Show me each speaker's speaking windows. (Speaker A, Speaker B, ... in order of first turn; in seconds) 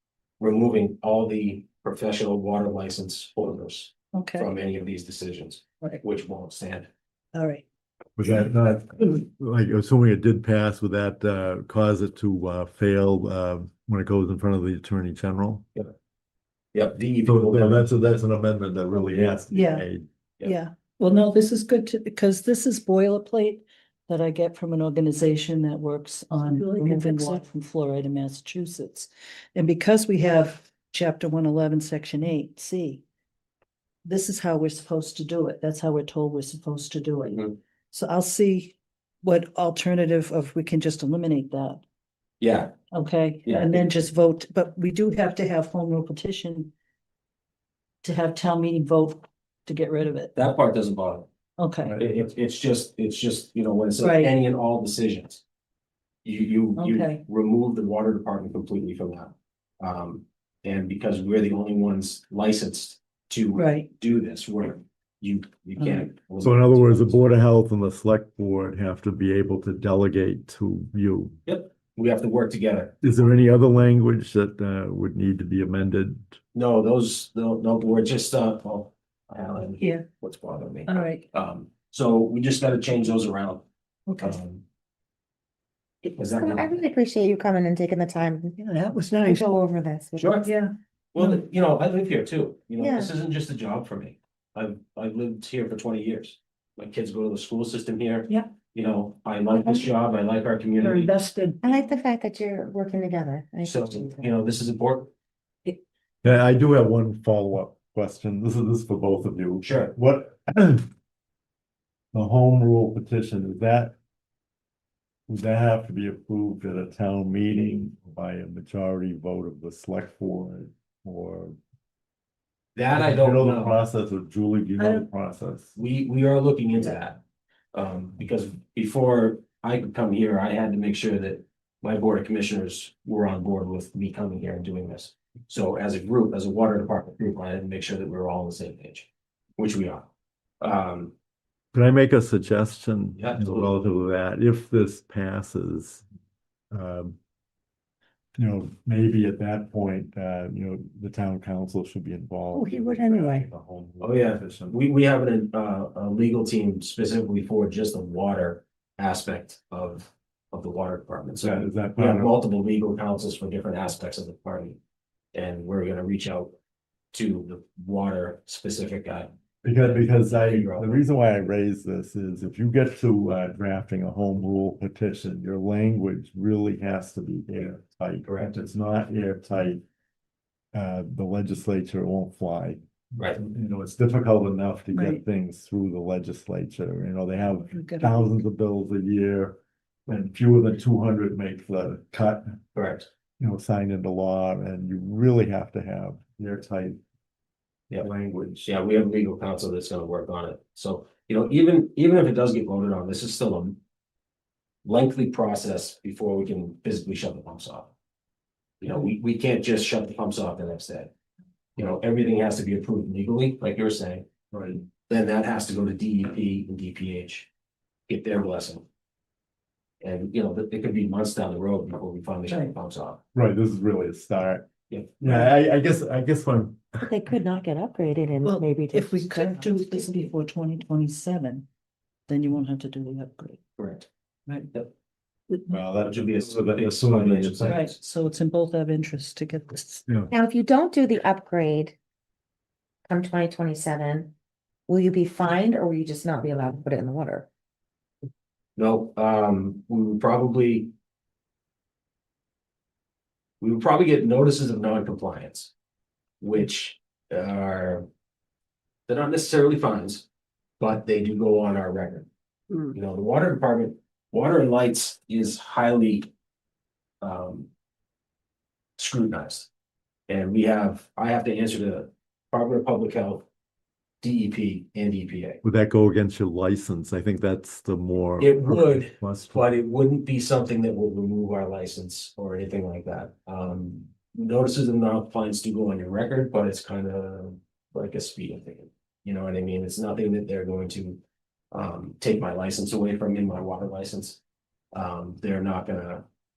Speaker A: 0.4-6.9, 16.7-17.9, 18.9-19.4, 37.2-37.5, 42.4-42.7, 43.4-43.8, 50.3-51.3, 52.0-55.4, 56.2-67.3, 71.4-73.3, 76.5-83.7, 84.2-84.6, 86.1-86.8, 90.2-90.5, 91.1-101.1, 103.6-105.1, 109.6-109.9, 122.8-123.8, 125.7-127.2, 127.7-140.1, 140.6-141.1, 143.2-143.7, 154.0-164.8, 165.3-166.5, 167.1-171.1, 178.2-178.5, 192.7-193.1, 198.6-203.8, 204.8-207.9, 208.8-211.1, 211.8-214.3, 215.0-217.5, 218.1-218.8, 220.0-223.2, 224.9-225.5, 233.8-234.1, 236.1-238.0, 248.8-250.9, 253.6-255.7, 256.4-258.1, 259.1-260.2, 260.8-262.3, 262.9-266.3, 267.2-267.7, 269.0-269.7, 270.3-273.4, 274.2-275.6, 278.4-291.2, 291.7-294.4, 294.9-296.2
Speaker B: 4.1-4.5, 7.3-7.6, 19.5-19.9, 20.4-33.0, 34.0-37.4, 37.9-41.8, 42.9-46.7, 48.0-50.4, 51.6-52.0, 54.0-54.3, 56.8-57.2, 63.5-63.9, 65.8-66.1, 80.8-81.2, 84.1-84.4, 88.6-89.6, 90.4-91.4, 100.8-101.6, 124.8-125.1, 152.5-153.4, 184.9-185.2, 187.4-188.4, 222.5-222.7, 228.4-231.7, 232.3-233.6, 235.5-235.8, 237.7-240.1
Speaker C: 8.2-15.7, 17.2-20.1, 51.8-52.2, 66.4-71.4, 73.0-76.3, 106.2-110.9, 112.1-113.9, 115.3-121.6, 122.9-125.7, 141.7-146.0, 146.7-147.2, 148.4-154.8, 161.4-162.3, 169.6-179.8, 180.7-192.5, 193.4-197.0, 198.0-198.7, 214.5-214.8, 223.3-224.7, 225.2-227.1, 235.7-237.8, 275.6-279.6
Speaker D: 26.4-27.4, 86.3-88.6, 89.2-90.3, 92.8-93.1, 101.6-104.3, 227.0-230.3, 240.3-241.9, 243.1-244.3, 244.9-247.5